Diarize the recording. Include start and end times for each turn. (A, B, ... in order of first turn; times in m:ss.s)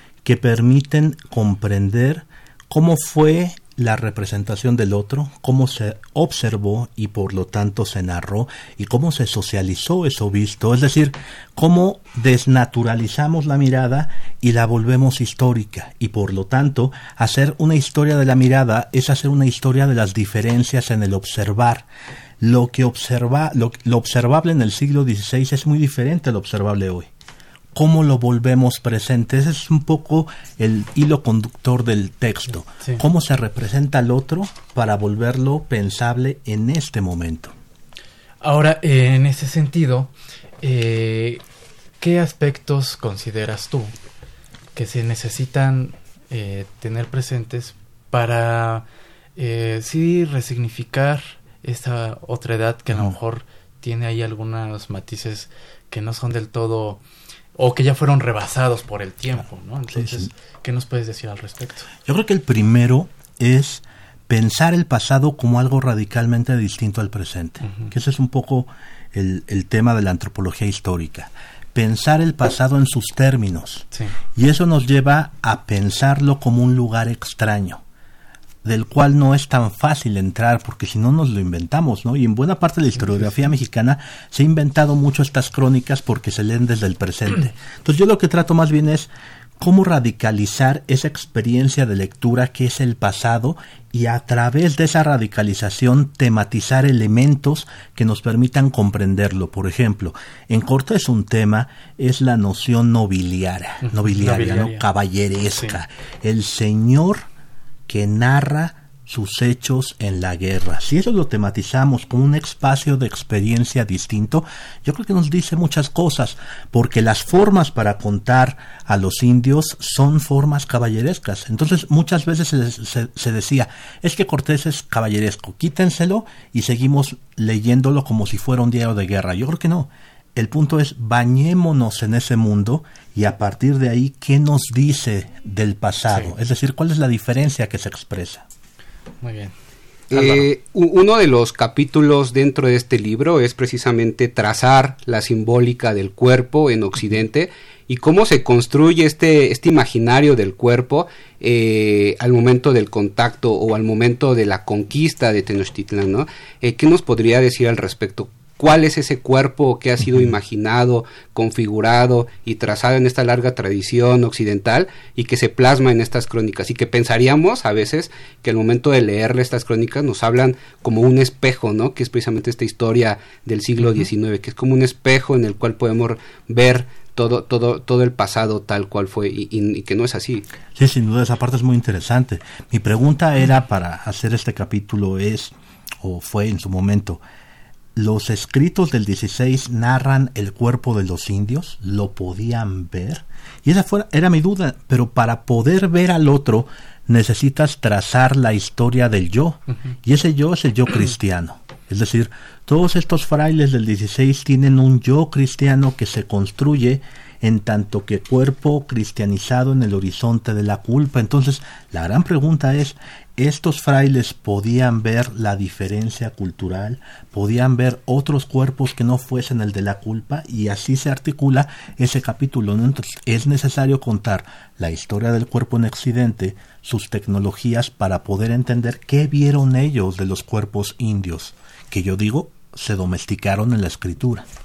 0:00.2-0:21.8 A
0:22.4-0:27.1 A
0:27.7-0:37.5 A
0:38.4-0:40.1 B
0:40.6-0:41.4 B
0:42.0-0:43.9 B
0:44.7-0:48.8 B
0:49.4-0:57.0 B
0:57.6-1:01.9 B
0:59.9-1:00.3 A
1:02.0-1:17.8 A
1:07.6-1:07.9 B
1:18.6-1:47.2 A
1:23.0-1:23.4 B
1:43.8-1:44.8 B
1:47.9-2:18.4 A
2:19.2-2:19.5 B
2:20.1-3:00.4 C
2:20.1-2:20.5 B
3:00.7-3:07.2 A
3:07.9-3:54.4 A